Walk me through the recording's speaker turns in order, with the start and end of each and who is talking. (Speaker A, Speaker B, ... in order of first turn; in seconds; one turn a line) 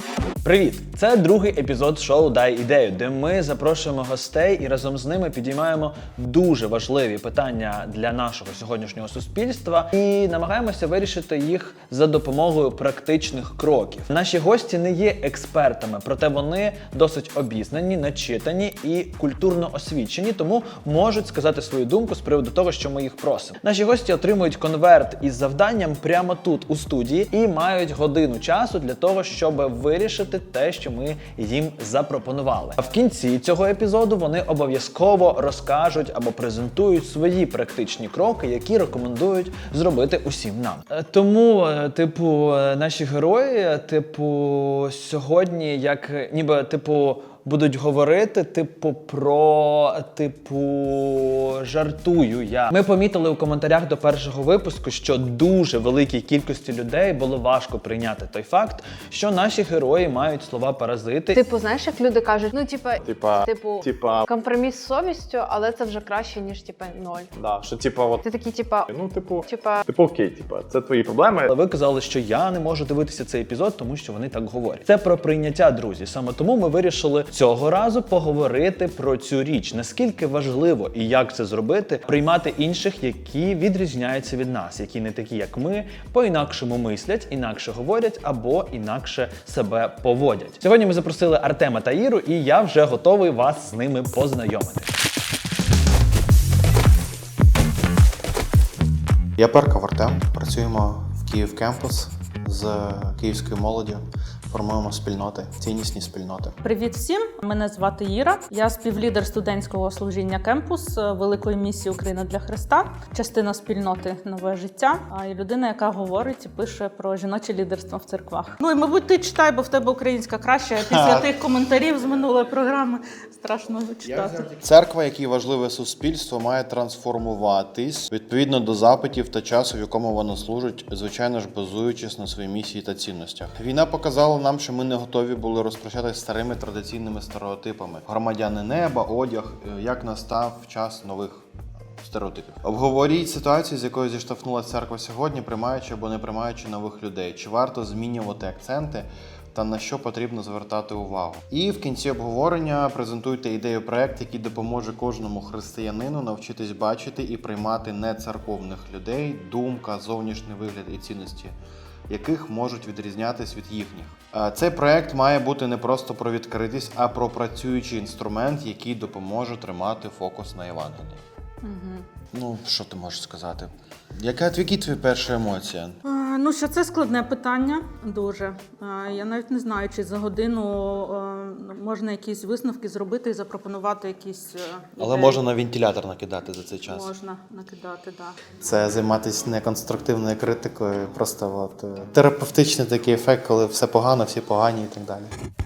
Speaker A: 0.4-61.4
Speaker B: 61.3-67.3
Speaker C: 63.0-64.3
Speaker C: 67.3-68.2
Speaker B: 68.2-68.9
Speaker C: 68.9-71.5
Speaker B: 69.5-69.8
Speaker A: 71.5-94.9
Speaker D: 99.4-106.5
Speaker E: 106.6-124.5
Speaker D: 120.8-121.3
Speaker D: 124.0-141.4
Speaker D: 142.0-161.5
Speaker D: 162.1-171.2
Speaker E: 171.6-172.1
Speaker D: 172.3-176.0
Speaker E: 176.0-185.4
Speaker D: 185.0-187.1
Speaker E: 186.9-188.4
Speaker D: 188.6-195.3